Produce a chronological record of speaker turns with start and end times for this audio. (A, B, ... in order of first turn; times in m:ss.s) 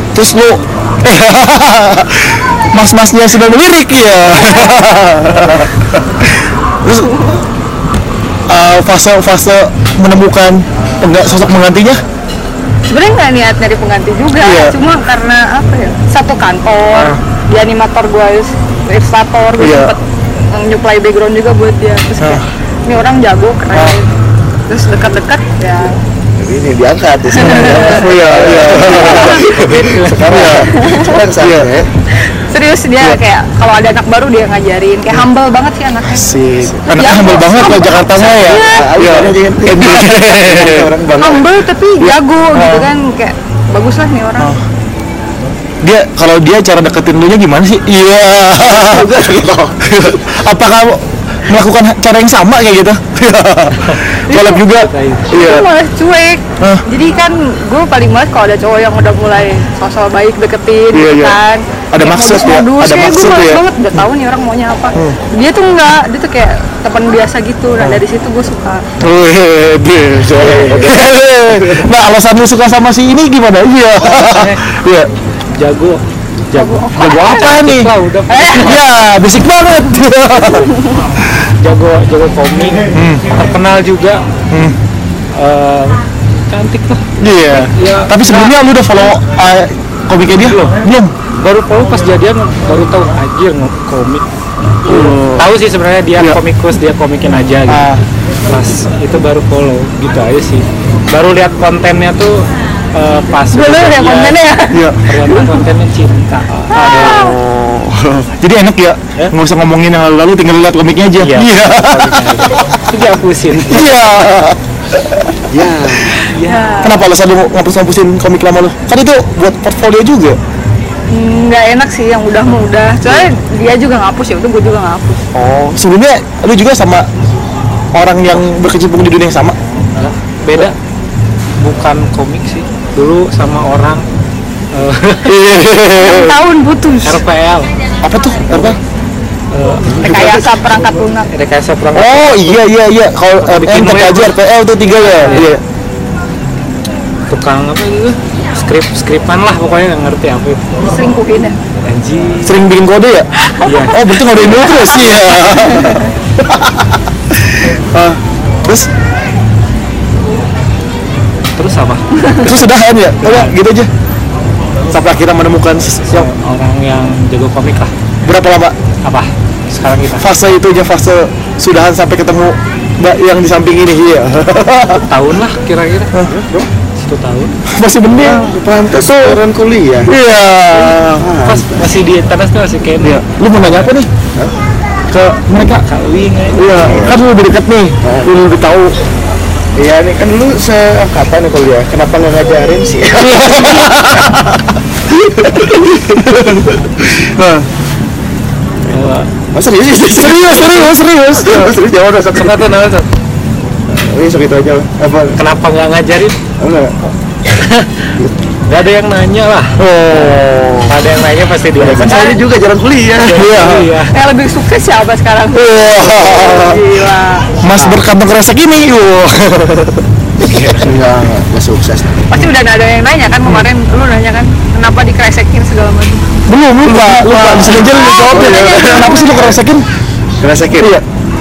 0:00.1-0:07.2 A
0:07.0-0:07.4 B
0:08.5-0:12.0 A
0:12.9-0:24.1 B
0:14.4-0:14.8 A
0:16.9-0:17.2 A
0:19.6-0:20.0 A
0:24.7-0:26.0 B
0:26.4-0:31.9 C
0:27.3-0:28.2 B
0:27.4-0:29.6 A
0:28.7-0:30.5 D
0:30.2-0:31.7 A
0:30.8-0:31.1 B
0:32.1-0:36.3 B
0:36.0-0:40.9 A
0:36.8-0:38.9 B
0:38.1-0:41.4 C
0:41.2-0:44.5 B
0:42.0-0:42.9 A
0:45.8-0:49.2 A
0:48.6-0:49.8 C
0:49.8-0:55.7 A
0:54.3-0:54.7 B
0:54.7-0:55.3 D
0:55.3-1:08.8 B
0:56.6-0:56.8 A
1:00.9-1:01.4 A
1:01.9-1:04.0 A
1:09.0-1:15.1 A
1:10.3-1:11.8 C
1:14.1-1:14.6 D
1:15.6-1:18.8 D
1:16.5-1:17.6 B
1:16.9-1:17.9 A
1:18.3-1:18.8 B
1:18.6-1:20.7 A
1:21.6-1:24.2 D
1:22.9-1:23.2 A
1:24.5-1:24.8 A
1:25.3-1:27.0 D
1:27.2-1:31.1 A
1:27.6-1:28.5 D
1:30.4-1:30.7 D
1:31.4-1:34.2 D
1:34.8-1:37.9 D
1:34.8-1:35.5 A
1:37.7-1:38.0 A
1:38.5-1:44.4 D
1:43.5-1:44.9 B
1:44.7-1:45.0 A
1:45.0-1:47.1 D
1:46.7-1:47.4 B
1:46.7-1:47.8 A
1:47.1-1:48.2 C
1:48.4-1:52.7 A
1:51.2-1:53.9 D
1:53.5-1:54.6 A
1:55.5-1:56.2 C
1:56.2-1:56.7 D
1:56.4-1:57.0 B
1:56.8-2:00.4 A
2:01.1-2:05.2 B
2:05.3-2:07.1 A
2:07.9-2:09.6 A
2:10.0-2:10.8 D
2:11.6-2:14.0 D
2:14.7-2:15.4 D
2:15.2-2:16.4 A
2:15.9-2:17.2 B
2:17.0-2:17.7 D
2:18.0-2:18.8 A
2:19.5-2:20.0 D
2:20.0-2:21.3 B
2:21.3-2:22.7 D
2:21.9-2:25.6 A
2:23.4-2:24.4 D
2:25.1-2:25.5 D
2:27.3-2:30.7 D
2:30.8-2:31.6 B
2:31.8-2:32.6 D
2:32.4-2:33.3 A
2:33.6-2:34.3 D
2:33.8-2:38.9 A
2:35.7-2:36.0 B
2:41.5-2:42.5 D
2:42.4-2:43.9 A
2:43.2-2:43.5 D
2:44.9-2:46.3 A
2:46.1-2:47.9 D
2:48.2-2:48.8 A
2:49.0-2:50.3 D
2:50.2-2:55.1 A
2:55.0-2:56.1 D
2:56.2-2:56.7 C
2:57.0-2:57.5 D
2:57.7-2:59.4 A
2:58.2-3:00.2 C
3:00.0-3:01.2 A
3:00.7-3:01.9 C
3:01.4-3:03.9 D
3:03.0-3:04.1 A
3:05.1-3:05.8 A
3:05.8-3:06.9 D
3:06.5-3:08.9 A
3:06.6-3:07.2 C
3:08.0-3:08.3 C
3:09.8-3:14.3 C
3:13.2-3:14.4 A
3:15.2-3:17.7 A
3:15.4-3:16.7 C
3:18.9-3:19.3 D
3:19.5-3:22.6 C
3:20.1-3:21.7 A
3:22.3-3:23.1 D
3:23.9-3:25.4 C
3:25.3-3:26.4 D
3:26.6-3:27.0 C
3:27.5-3:28.1 D
3:28.7-3:29.7 D
3:29.8-3:30.9 A
3:30.9-3:32.3 D
3:31.7-3:33.6 C
3:32.0-3:32.4 B
3:33.2-3:34.1 D
3:33.3-3:33.9 A
3:34.1-3:37.5 B
3:35.5-3:36.8 A
3:37.6-3:40.0 A
3:37.7-3:38.0 C
3:40.4-3:42.3 C
3:42.3-3:46.4 B
3:46.5-3:49.8 A
3:46.9-3:49.6 C
3:47.7-3:49.5 B
3:50.4-3:51.0 C
3:50.8-3:51.0 A